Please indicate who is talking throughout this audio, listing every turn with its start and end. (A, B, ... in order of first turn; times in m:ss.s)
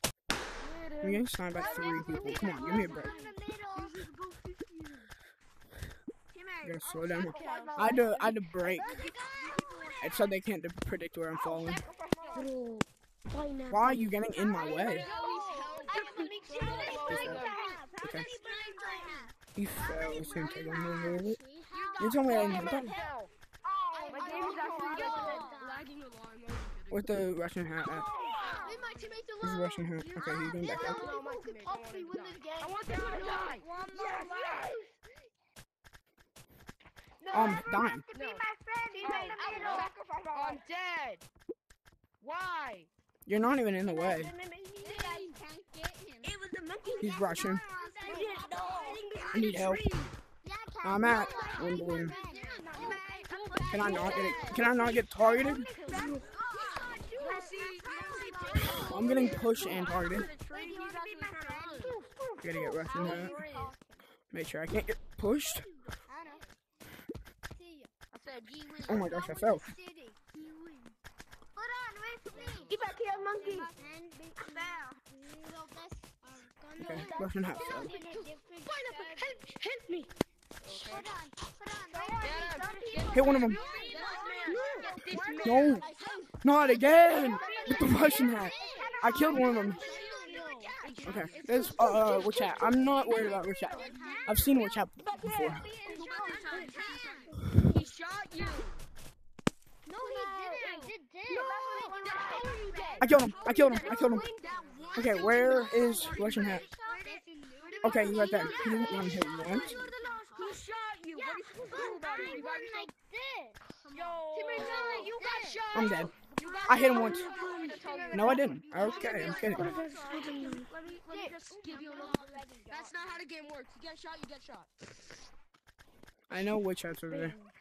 0:00.6-0:01.1 A
0:01.0-0:03.1 B
0:01.5-0:04.1 C
0:01.5-0:05.0 D
0:03.9-0:04.2 A
0:06.3-0:07.8 C
0:06.6-0:09.0 B
0:07.2-0:10.3 D
0:07.2-0:08.2 A
0:08.8-0:10.3 C
0:08.8-0:10.2 A
0:10.0-0:11.8 B
0:11.3-0:12.5 A
0:12.3-0:19.3 D
0:13.7-0:15.0 B
0:14.6-0:23.0 C
0:14.8-0:17.8 A
0:17.1-0:17.4 B
0:19.5-0:21.4 B
0:19.9-0:21.1 D
0:21.7-0:27.2 A
0:22.0-0:22.9 B
0:22.1-0:23.1 D
0:23.9-0:25.6 D
0:23.9-0:25.9 C
0:26.9-0:28.1 B
0:27.8-0:29.8 A
0:27.9-0:34.9 D
0:28.1-0:28.9 C
0:29.4-0:31.0 B
0:30.5-0:31.2 C
0:30.6-0:34.6 A
0:32.9-0:34.8 C
0:37.2-0:40.6 D
0:37.3-0:38.0 B
0:38.1-0:38.4 A
0:38.1-0:39.9 C
0:39.0-0:41.2 A
0:42.2-0:42.9 A
0:43.2-0:44.3 B
0:43.9-0:45.3 D
0:44.8-0:46.3 C
0:44.8-0:45.3 A
0:46.2-0:50.1 D
0:46.8-0:47.2 A
0:47.0-0:47.6 B
0:47.0-0:49.0 C
0:47.8-0:50.0 A
0:49.3-0:49.8 B
0:50.4-0:59.8 C
0:50.8-0:52.1 B
0:51.0-1:03.8 D
0:52.1-0:54.7 A
0:53.7-0:55.7 B
0:55.9-1:02.0 A
0:58.9-1:00.3 B
1:00.5-1:02.0 C
1:02.4-1:03.4 B
1:02.8-1:03.8 A
1:02.8-1:03.8 C
1:04.3-1:05.6 B
1:06.1-1:06.4 C
1:07.5-1:07.9 C
1:08.1-1:09.3 A
1:08.8-1:09.6 B
1:08.9-1:10.2 C
1:08.9-1:09.3 D
1:10.3-1:10.9 D
1:11.5-1:12.8 C
1:12.3-1:13.9 A
1:12.5-1:13.7 D
1:13.3-1:19.3 C
1:14.4-1:15.0 D
1:16.8-1:20.1 D
1:16.8-1:17.9 B
1:18.6-1:19.3 A
1:20.6-1:21.2 A
1:20.7-1:32.5 C
1:21.9-1:37.4 D
1:22.2-1:26.3 A
1:23.1-1:23.6 B
1:25.4-1:25.8 B
1:26.4-1:29.8 B
1:27.3-1:34.4 A
1:31.0-1:35.7 B
1:33.7-1:37.4 C
1:35.9-1:38.8 A
1:39.9-1:50.6 C
1:39.9-1:52.5 D
1:40.5-1:47.0 A
1:43.0-1:44.2 B
1:44.9-1:46.6 B
1:47.8-1:49.8 B
1:48.4-1:52.9 A
1:51.6-1:53.6 C
1:53.9-2:02.9 D
1:53.9-2:04.7 A
1:54.5-1:55.7 C
1:55.7-1:56.1 B
1:56.5-2:03.1 C
1:56.6-1:57.3 B
1:58.1-1:59.8 B
2:06.3-2:07.3 B
2:07.1-2:07.5 D